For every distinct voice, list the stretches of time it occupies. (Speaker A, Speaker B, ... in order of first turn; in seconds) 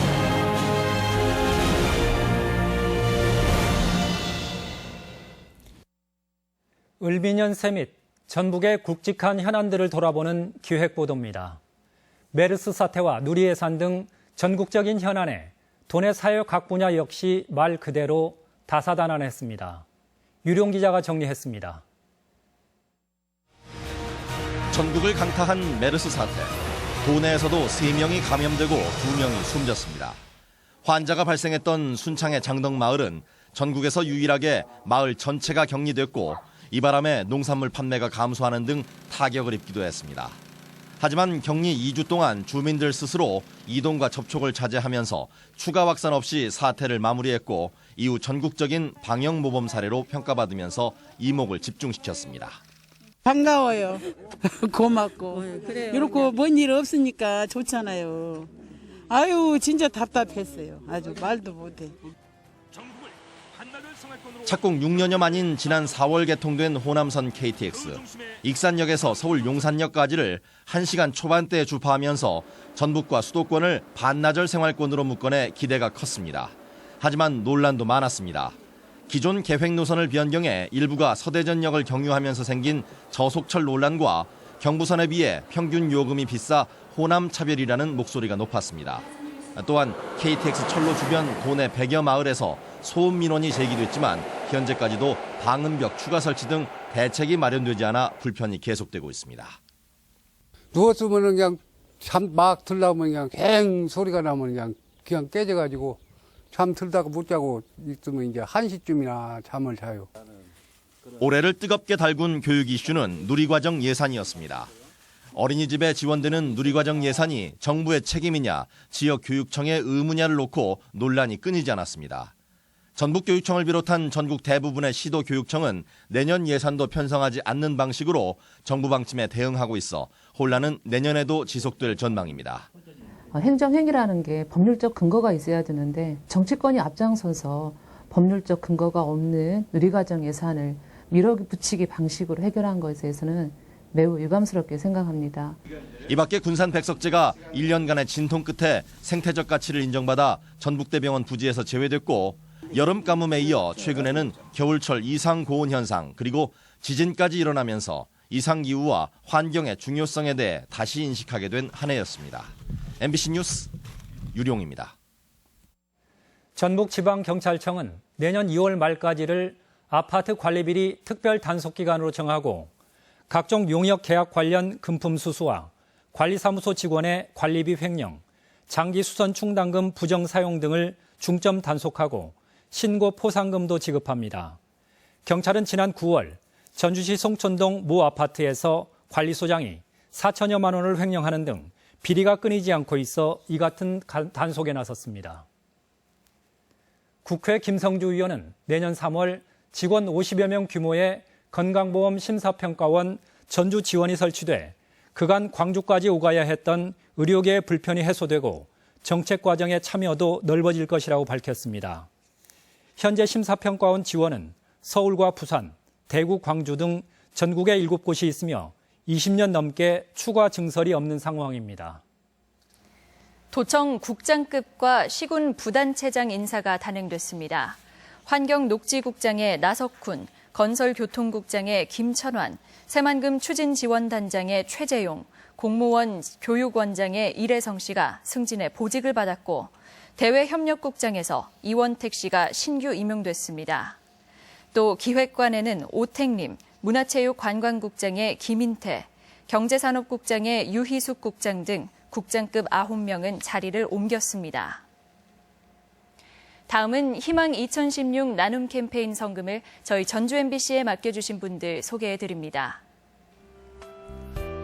Speaker A: 7.0-11.6, 12.3-19.8, 20.4-21.8, 166.6-172.7, 173.3-184.6, 185.2-195.4, 197.2-212.1, 213.0-222.0
Speaker B: 24.7-30.2, 30.8-40.4, 41.0-52.6, 64.4-78.5, 79.1-99.6, 111.2-114.7, 115.3-122.3, 123.0-132.7, 146.1-163.7, 164.3-164.9
Speaker C: 53.2-58.5, 59.1-62.0
Speaker D: 100.7-106.0, 106.5-110.1
Speaker E: 133.3-145.6
Speaker F: 223.5-244.0, 244.7-254.8, 256.7-262.8